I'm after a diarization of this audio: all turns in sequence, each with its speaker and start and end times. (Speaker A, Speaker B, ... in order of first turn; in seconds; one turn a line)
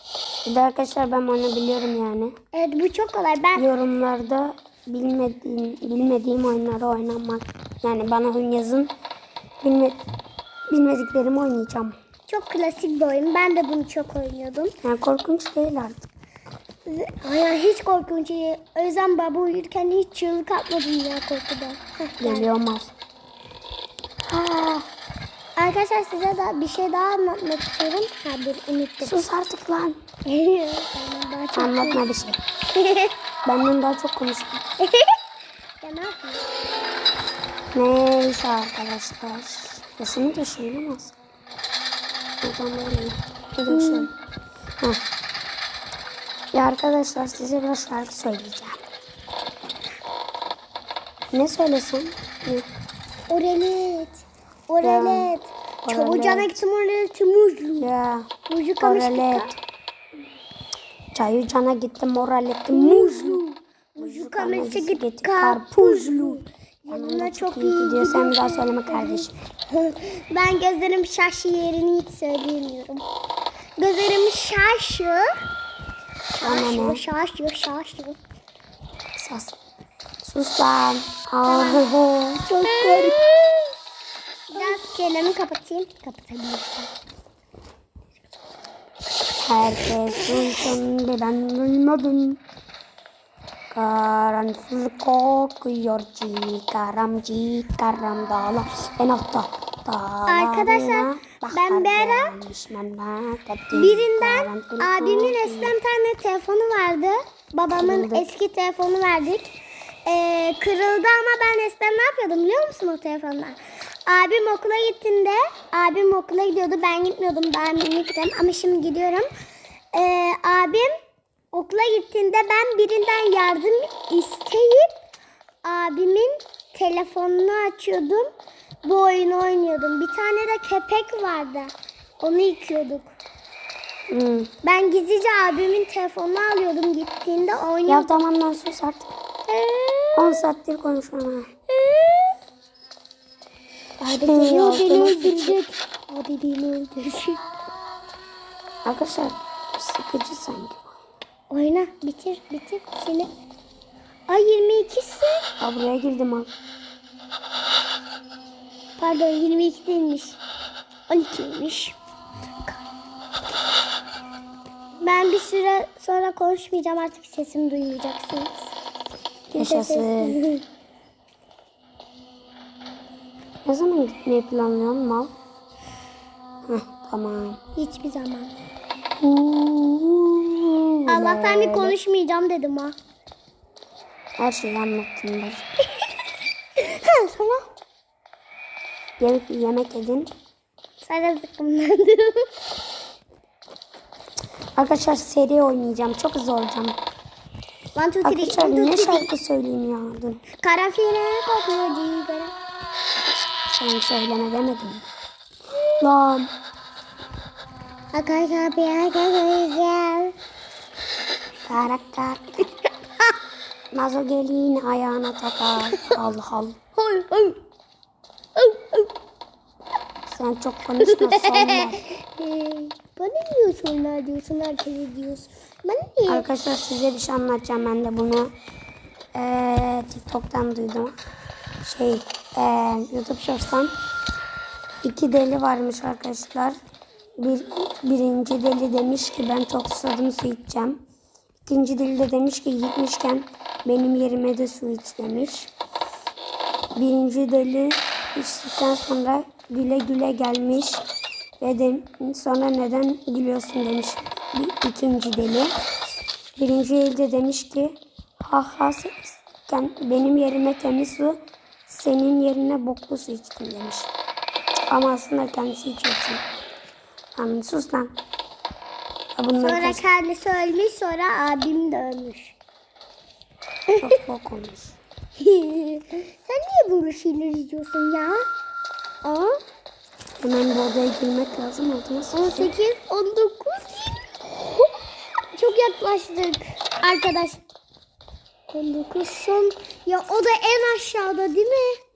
Speaker A: 0.5-2.3
Speaker B: 2.5-3.7
Speaker A: 3.6-8.9
Speaker A: 9.6-10.0
Speaker A: 10.7-12.0
Speaker B: 12.3-14.7
Speaker A: 14.8-16.1
Speaker B: 16.9-22.5
Speaker A: 22.2-22.9
Speaker A: 24.3-24.8
Speaker B: 25.6-29.2
Speaker A: 29.0-30.0
Speaker B: 30.3-32.0
Speaker A: 31.5-32.4
Speaker B: 32.7-33.1
Speaker A: 33.5-34.6
Speaker B: 34.8-35.1
Speaker B: 35.8-36.5
Speaker A: 37.7-41.2
Speaker A: 42.4-44.1
Speaker B: 43.7-44.1
Speaker A: 46.5-48.8
Speaker A: 51.3-52.7
Speaker B: 53.3-57.9
Speaker A: 54.8-55.3
Speaker A: 55.8-56.6
Speaker A: 57.8-59.6
Speaker B: 58.5-59.5
Speaker A: 61.1-63.4
Speaker B: 62.7-73.1
Speaker A: 64.0-69.3
Speaker B: 73.8-75.3
Speaker B: 76.3-78.2
Speaker A: 76.4-77.0
Speaker A: 79.2-79.6
Speaker A: 80.2-83.3
Speaker B: 81.5-81.8
Speaker B: 82.6-83.4
Speaker B: 84.5-86.9
Speaker A: 89.4-92.4
Speaker A: 93.7-105.8
Speaker B: 100.3-102.3
Speaker B: 103.7-109.5
Speaker A: 107.8-108.3
Speaker B: 110.1-119.3
Speaker B: 119.9-121.0
Speaker B: 121.5-124.9
Speaker B: 125.6-128.3
Speaker B: 128.8-133.1
Speaker A: 134.1-134.5
Speaker B: 134.6-138.1
Speaker A: 137.9-139.1
Speaker B: 139.5-140.3
Speaker A: 140.2-141.5
Speaker B: 141.7-142.3
Speaker B: 144.0-147.4
Speaker A: 144.2-145.6
Speaker A: 148.8-151.0
Speaker B: 151.5-153.3
Speaker B: 154.3-155.4
Speaker A: 155.6-156.5
Speaker B: 159.0-160.4
Speaker B: 161.1-162.0
Speaker B: 165.0-168.7
Speaker B: 169.5-170.6
Speaker A: 169.5-170.4
Speaker A: 173.7-175.3
Speaker A: 176.7-177.6
Speaker B: 177.8-178.5
Speaker A: 179.2-182.0
Speaker B: 181.1-182.9
Speaker A: 184.4-185.6
Speaker B: 186.8-187.7
Speaker A: 189.2-190.3
Speaker B: 191.0-192.5
Speaker A: 194.8-197.0
Speaker B: 197.9-199.3
Speaker A: 198.2-200.4
Speaker B: 200.5-202.5
Speaker A: 203.7-205.1
Speaker A: 206.0-206.5
Speaker B: 208.1-210.3
Speaker A: 211.6-212.6
Speaker A: 213.9-216.8
Speaker B: 217.0-217.6
Speaker B: 218.6-219.1
Speaker A: 220.3-222.0
Speaker B: 221.0-226.5
Speaker A: 226.3-228.5
Speaker A: 229.3-231.1
Speaker A: 231.8-233.9
Speaker A: 235.0-236.8
Speaker A: 237.4-241.0
Speaker A: 241.7-245.7
Speaker A: 247.0-251.0
Speaker A: 251.6-255.7
Speaker A: 256.6-264.1
Speaker A: 264.9-266.4
Speaker A: 267.4-268.1
Speaker A: 269.4-270.0
Speaker B: 269.6-272.6
Speaker A: 274.0-275.0
Speaker B: 275.4-278.4
Speaker B: 279.2-279.6
Speaker A: 280.4-282.7
Speaker B: 282.3-284.9
Speaker B: 285.5-287.6
Speaker B: 288.7-292.0